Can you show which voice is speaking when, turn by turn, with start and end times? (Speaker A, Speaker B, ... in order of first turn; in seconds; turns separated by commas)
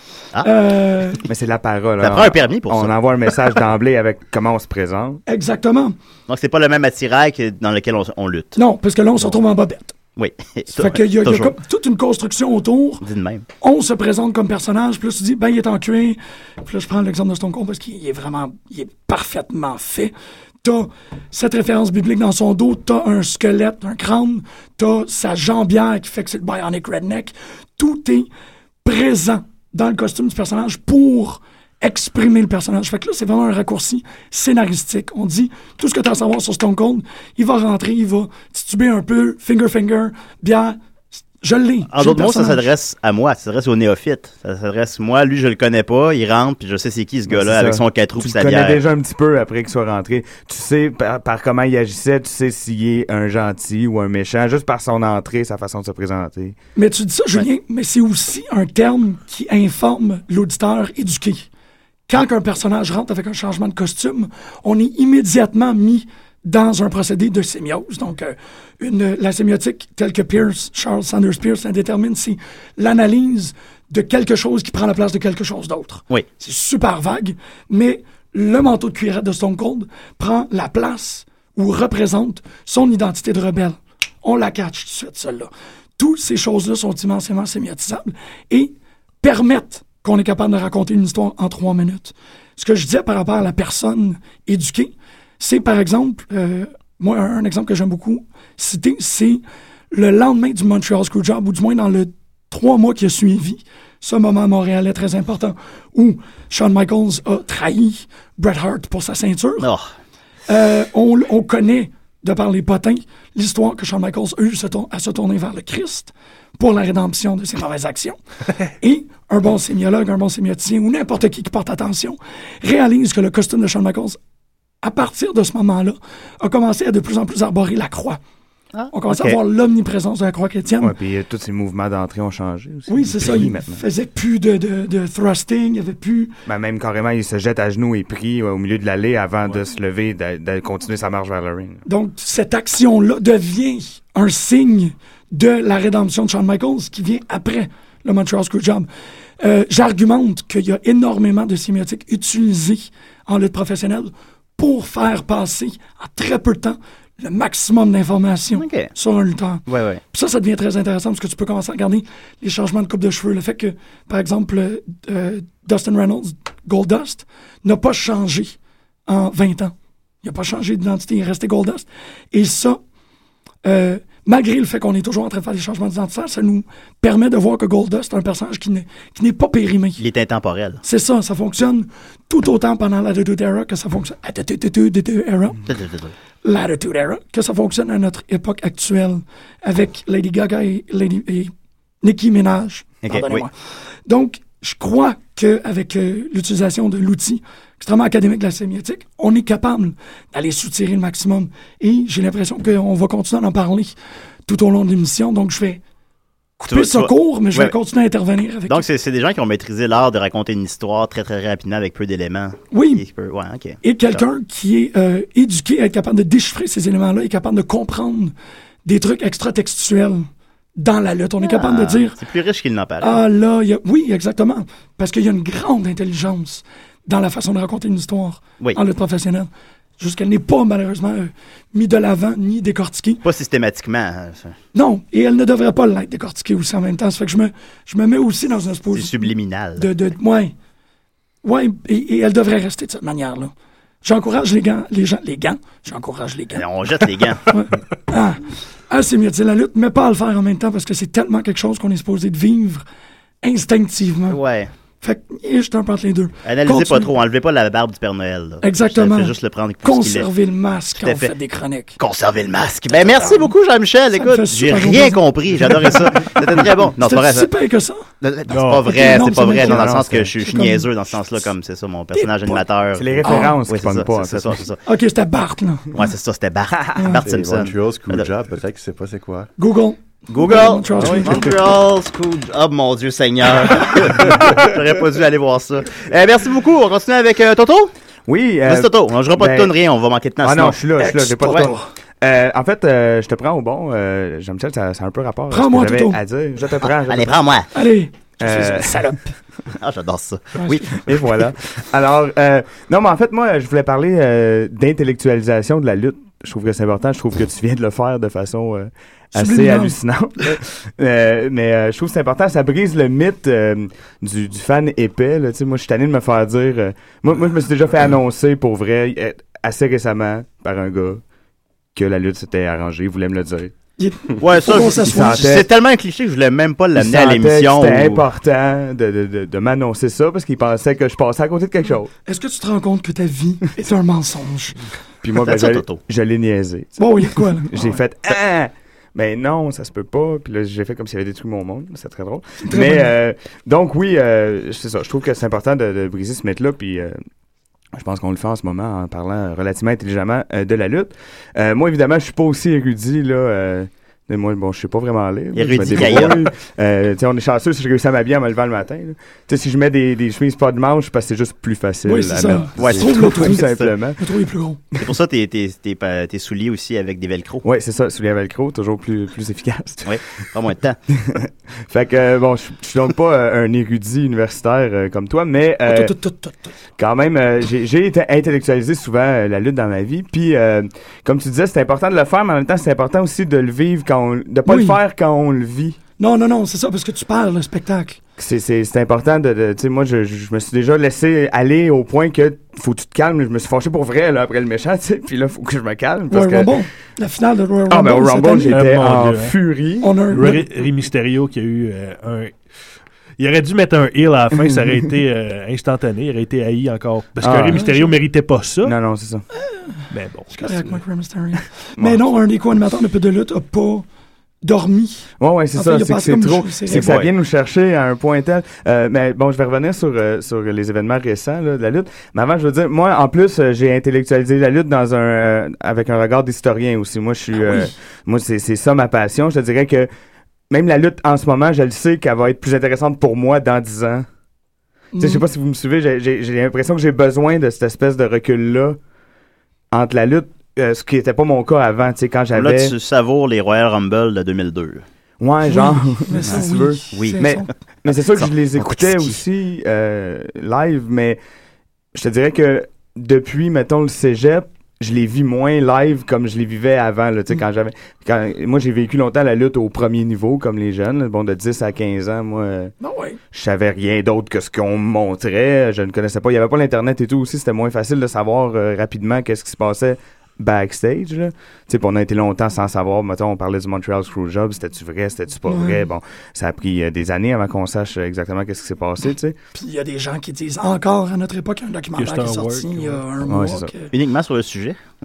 Speaker A: 0.4-1.2, Speaker B: 1.2-5.2, Speaker C: 2.0-2.9, Speaker A: 5.3-6.0, Speaker C: 6.3-8.6, Speaker A: 8.5-9.9, Speaker C: 10.2-11.5, Speaker A: 10.7-13.0, Speaker C: 13.0-13.4, Speaker A: 13.6-20.1, Speaker A: 20.6-28.3, Speaker A: 28.8-40.8, Speaker A: 41.4-42.7, Speaker C: 41.9-48.8, Speaker B: 47.3-56.5, Speaker A: 56.8-61.5, Speaker A: 62.1-109.7, Speaker C: 109.6-109.9, Speaker A: 110.5-118.2, Speaker A: 118.8-124.2, Speaker A: 124.8-128.2, Speaker C: 128.7-129.4, Speaker A: 128.9-130.9, Speaker B: 130.8-133.8, Speaker A: 132.9-136.3, Speaker B: 136.5-141.8, Speaker A: 141.8-148.9, Speaker A: 149.4-168.6, Speaker C: 158.6-158.9, Speaker C: 159.7-160.0, Speaker A: 169.1-172.8, Speaker A: 173.6-180.0, Speaker C: 180.0-180.8, Speaker A: 180.8-185.6, Speaker C: 185.7-186.1, Speaker A: 186.4-191.5, Speaker A: 192.0-193.5, Speaker C: 193.0-193.5, Speaker A: 194.1-203.9, Speaker A: 204.5-205.8, Speaker A: 206.6-208.8, Speaker C: 206.7-207.7, Speaker C: 208.7-214.2, Speaker A: 212.7-213.0, Speaker A: 213.8-218.3, Speaker A: 218.8-222.2, Speaker C: 221.4-223.2, Speaker A: 223.0-233.2, Speaker C: 233.2-234.6, Speaker A: 234.7-240.5, Speaker C: 238.9-239.9, Speaker A: 241.4-243.5, Speaker A: 244.0-246.7, Speaker C: 246.5-247.4, Speaker A: 247.5-252.8, Speaker A: 253.4-254.4, Speaker C: 254.3-254.7, Speaker A: 255.0-257.1, Speaker C: 256.4-260.3, Speaker A: 258.6-262.0, Speaker C: 261.0-261.3, Speaker C: 262.0-267.5, Speaker A: 262.9-263.5, Speaker A: 264.1-268.0, Speaker C: 268.2-274.8, Speaker D: 268.5-269.0, Speaker A: 268.8-271.5, Speaker B: 269.6-270.3, Speaker A: 272.1-272.6, Speaker B: 272.9-274.6, Speaker A: 273.2-273.6, Speaker A: 274.9-276.0, Speaker C: 275.9-278.3, Speaker A: 276.9-277.2, Speaker E: 277.2-279.5, Speaker A: 279.6-281.6, Speaker C: 280.3-287.9, Speaker B: 288.3-289.7, Speaker C: 288.7-290.8, Speaker B: 290.4-297.4, Speaker A: 290.9-291.9, Speaker A: 295.5-296.2, Speaker C: 297.0-297.7, Speaker A: 297.7-299.3, Speaker B: 298.4-299.0, Speaker C: 299.8-301.1, Speaker A: 300.6-301.0, Speaker B: 301.0-321.2, Speaker A: 309.3-310.0, Speaker B: 321.9-323.7, Speaker A: 324.0-325.6, Speaker C: 324.4-328.2, Speaker B: 324.9-325.7, Speaker B: 326.9-332.1, Speaker A: 332.2-334.8, Speaker B: 335.2-337.1, Speaker C: 335.4-336.0, Speaker A: 337.0-338.0, Speaker B: 337.7-347.2, Speaker A: 342.6-343.1, Speaker B: 347.9-364.2, Speaker C: 355.5-356.4, Speaker A: 362.0-364.8, Speaker C: 362.7-363.9, Speaker C: 365.0-367.6, Speaker B: 367.6-370.2, Speaker C: 370.0-371.0, Speaker B: 371.1-376.1, Speaker A: 375.9-376.7, Speaker B: 377.0-386.0, Speaker A: 384.6-385.0, Speaker A: 386.2-388.2, Speaker B: 388.4-396.7, Speaker A: 396.3-398.8, Speaker B: 397.9-400.1, Speaker D: 398.7-399.6, Speaker A: 400.0-400.7, Speaker D: 400.3-402.5, Speaker D: 403.4-408.9, Speaker B: 407.4-407.8, Speaker A: 407.7-408.2, Speaker B: 408.8-409.4, Speaker D: 410.1-411.0, Speaker A: 410.5-414.1, Speaker A: 414.6-417.2, Speaker B: 415.4-430.1, Speaker C: 416.9-417.3, Speaker A: 427.5-427.9, Speaker B: 430.7-434.3, Speaker A: 435.1-435.4, Speaker B: 435.2-439.0, Speaker B: 439.9-442.9, Speaker C: 442.5-445.0, Speaker B: 445.4-451.4, Speaker A: 445.6-447.7, Speaker C: 446.5-449.4, Speaker B: 452.1-462.9, Speaker A: 463.0-463.4, Speaker B: 463.5-479.6, Speaker A: 475.6-476.1, Speaker A: 479.7-484.1, Speaker D: 482.1-483.2, Speaker B: 483.5-483.9, Speaker C: 484.1-485.0